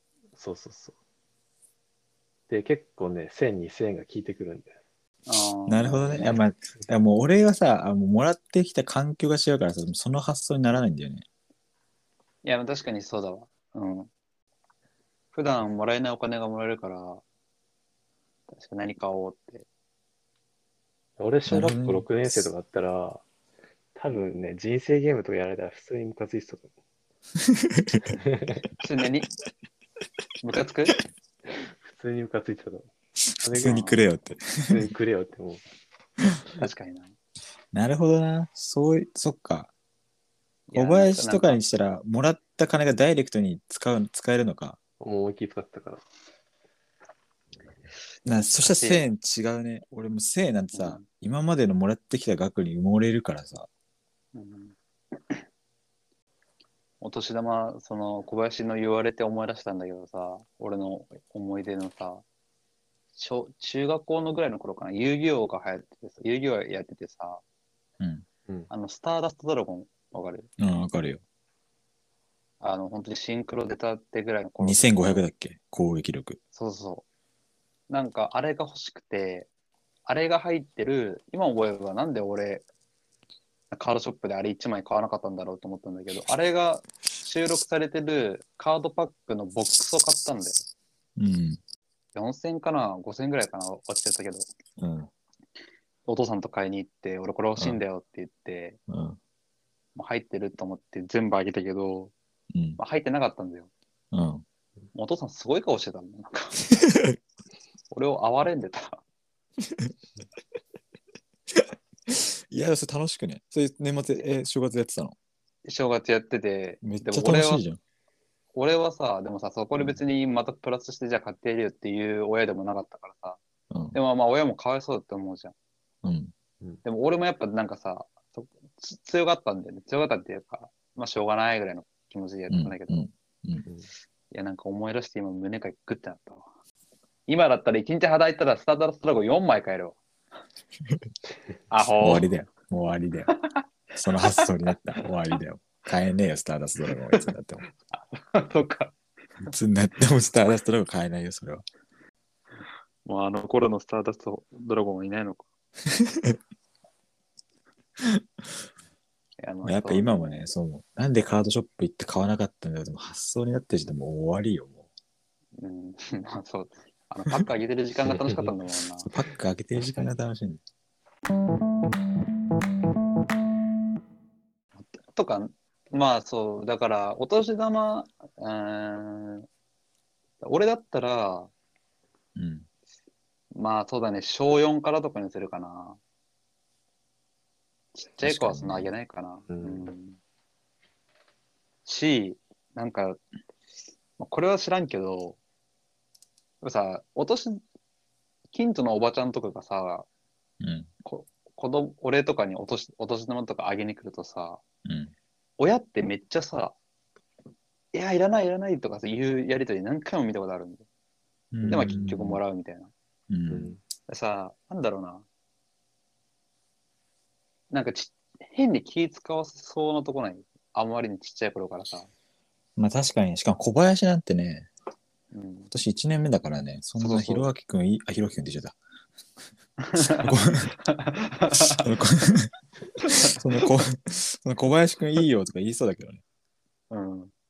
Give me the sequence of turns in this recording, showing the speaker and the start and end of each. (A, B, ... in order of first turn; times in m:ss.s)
0:00.4-0:01.0 A
0:02.5-0:04.8 A
0:05.3-0:06.4 B
0:05.7-0:11.2 C
0:12.4-0:14.1 B
0:15.3-0:17.2 B
0:18.5-0:19.7 B
0:21.2-0:23.2 A
0:21.5-0:22.5 C
0:24.0-0:26.7 A
0:27.4-0:28.2 C
0:28.2-0:28.6 A
0:28.8-0:29.3 B
0:30.4-0:31.0 B
0:31.5-0:32.9 A
0:33.4-0:34.9 C
0:33.4-0:34.0 A
0:34.7-0:35.6 A
0:36.6-0:37.1 B
0:37.7-0:39.7 C
0:40.7-0:41.6 B
0:40.7-0:44.8 C
0:45.0-0:46.0 A
0:48.2-0:53.7 C
0:48.6-0:49.0 B
0:50.7-0:51.1 B
0:54.3-0:54.8 B
0:57.0-1:02.2 B
1:03.2-1:07.4 B
1:08.0-1:08.2 C
1:08.7-1:10.5 B
1:10.6-1:11.2 C
1:12.6-1:15.2 B
1:14.6-1:16.4 C
1:16.5-1:17.0 B
1:17.9-1:19.5 B
1:20.1-1:22.6 B
1:23.7-1:30.6 B
1:31.2-1:31.6 C
1:32.1-1:34.5 B
1:34.8-1:35.1 C
1:36.1-1:38.8 B
1:38.9-1:39.2 C
1:40.0-1:42.1 B
1:42.5-1:42.8 C
1:42.8-1:43.7 B
1:44.1-1:44.4 C
1:45.0-1:46.6 B
1:46.8-1:47.2 C
1:47.9-1:49.0 B
1:49.6-1:49.9 C
1:51.5-1:55.2 C
1:55.6-1:57.6 B
1:56.8-1:57.8 C
1:58.6-2:03.4 B
2:03.7-2:04.0 C
2:03.9-2:05.5 B
2:06.0-2:06.3 C
2:06.8-2:13.1 B
2:12.5-2:13.6 C
2:14.3-2:16.5 B
2:17.3-2:20.0 B
2:21.7-2:22.3 B
2:22.0-2:23.3 C
2:23.3-2:23.6 B
2:24.0-2:27.6 C
2:27.9-2:28.9 B
2:29.5-2:31.6 C
2:33.0-2:35.5 B
2:35.9-2:36.4 C
2:38.0-2:38.4 C
2:39.4-2:40.5 B
2:39.6-2:44.8 C
2:45.6-2:49.1 B
2:48.1-2:48.5 A
2:49.0-2:50.6 C
2:54.9-2:59.5 B
3:00.4-3:01.5 B
3:02.4-3:02.7 C
3:03.5-3:06.0 B
3:08.0-3:10.2 B
3:08.2-3:08.9 C
3:09.5-3:09.9 A
3:11.8-3:13.2 B
3:14.2-3:15.4 B
3:16.6-3:17.6 B
3:18.5-3:20.1 B
3:20.6-3:20.9 C
3:21.0-3:24.6 B
3:24.8-3:25.1 C
3:25.6-3:26.8 B
3:27.9-3:30.9 B
3:31.5-3:32.4 C
3:31.7-3:32.0 A
3:31.7-3:32.9 B
3:33.3-3:33.8 C
3:33.5-3:33.8 A
3:34.1-3:35.2 B
3:37.7-3:42.1 B
3:42.8-3:44.7 C
3:45.3-3:45.7 B
3:45.7-3:48.8 C
3:47.0-3:47.5 B
3:49.8-3:51.9 B
3:50.0-3:50.7 C
3:51.7-3:52.5 C
3:53.0-3:53.4 B
3:53.3-3:56.2 C
3:56.9-3:57.3 B